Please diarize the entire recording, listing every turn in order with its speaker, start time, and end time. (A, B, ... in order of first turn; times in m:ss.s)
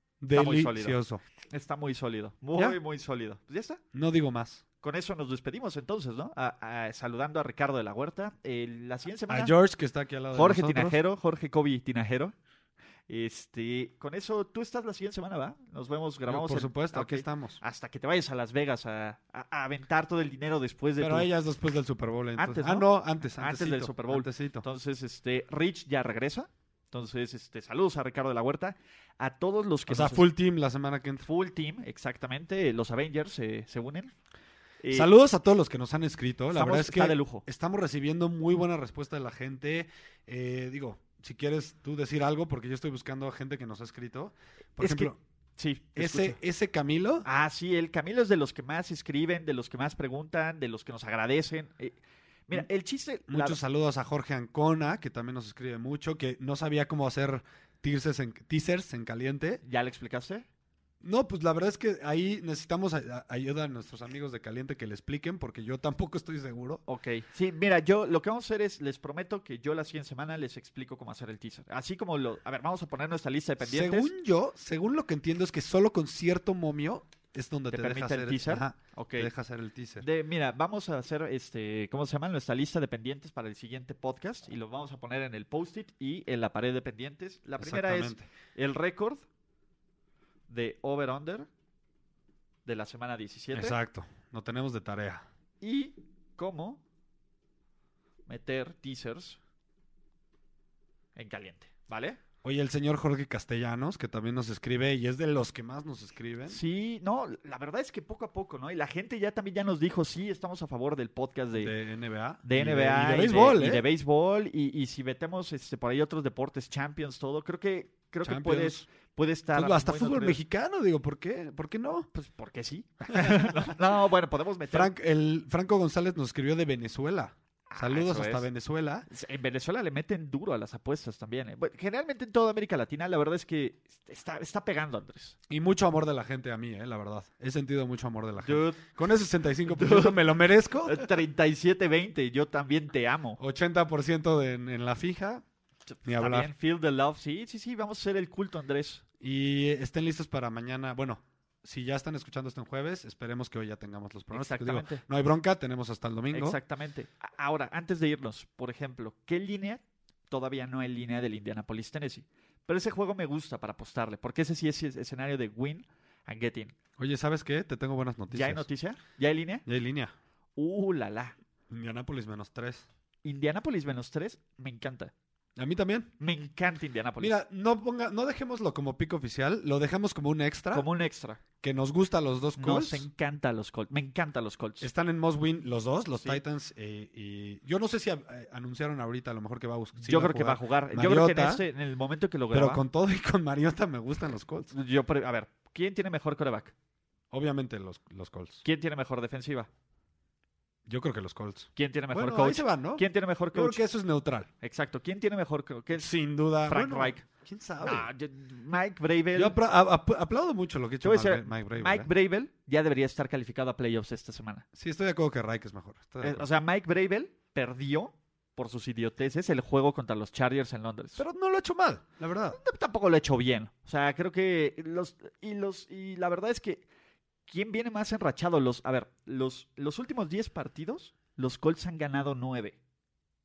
0:00.2-0:01.2 A
0:00.3-0:01.0 B
0:01.5-0:03.8 B
0:03.9-0:04.6 A
0:04.8-0:09.5 B
0:09.3-0:11.0 A
0:10.3-0:12.4 B
0:13.1-0:21.3 B
0:16.3-0:17.6 A
0:21.0-0:24.6 A
0:22.4-0:30.3 B
0:29.9-0:31.3 A
0:31.2-0:34.1 B
0:34.8-0:35.1 B
0:34.9-0:45.2 A
0:36.5-0:37.4 B
0:44.8-0:46.4 B
0:46.0-0:47.3 A
0:47.2-0:52.0 B
0:52.5-0:53.6 B
0:53.3-0:59.6 A
0:59.6-1:00.5 B
1:01.0-1:06.8 A
1:06.9-1:14.1 B
1:13.6-1:20.0 A
1:17.7-1:19.3 B
1:20.0-1:29.2 B
1:27.6-1:28.3 A
1:30.5-1:31.5 B
1:32.7-1:33.8 B
1:33.5-1:35.3 A
1:35.6-1:36.8 B
1:38.3-1:39.4 B
1:41.2-1:42.2 B
1:42.4-1:46.6 A
1:46.5-1:51.7 B
1:51.6-1:53.8 A
1:52.4-2:00.4 B
1:58.2-1:58.9 A
1:59.5-2:02.1 A
2:02.1-2:04.9 B
2:03.1-2:03.5 A
2:04.7-2:09.1 A
2:07.7-2:08.5 B
2:09.1-2:15.4 B
2:15.5-2:21.1 A
2:18.4-2:18.8 B
2:19.7-2:20.2 B
2:20.8-2:23.4 B
2:23.4-2:25.4 A
2:25.9-2:29.0 B
2:26.0-2:26.5 A
2:29.2-2:36.6 A
2:34.3-2:35.0 B
2:36.3-2:46.7 B
2:47.0-2:48.6 A
2:48.3-2:49.6 B
2:49.7-2:50.1 A
2:50.6-2:51.4 B
2:51.7-2:52.9 A
2:53.2-2:55.1 B
2:55.6-2:56.1 A
2:56.2-2:57.4 B
2:57.2-3:00.9 A
3:00.7-3:01.4 B
3:01.6-3:03.1 A
3:02.6-3:04.9 B
3:04.8-3:11.6 A
3:10.0-3:12.8 B
3:12.5-3:14.7 A
3:14.7-3:16.7 B
3:17.3-3:18.6 A
3:18.6-3:19.7 B
3:20.9-3:24.5 A
3:21.8-3:23.8 B
3:24.6-3:26.1 B
3:26.0-3:28.1 A
3:26.7-3:27.2 B
3:27.8-3:29.6 B
3:29.4-3:32.1 A
3:31.0-3:34.6 B
3:34.7-3:36.5 A
3:36.2-3:41.2 B
3:41.2-3:42.6 A
3:42.5-3:46.8 B
3:47.5-3:52.8 B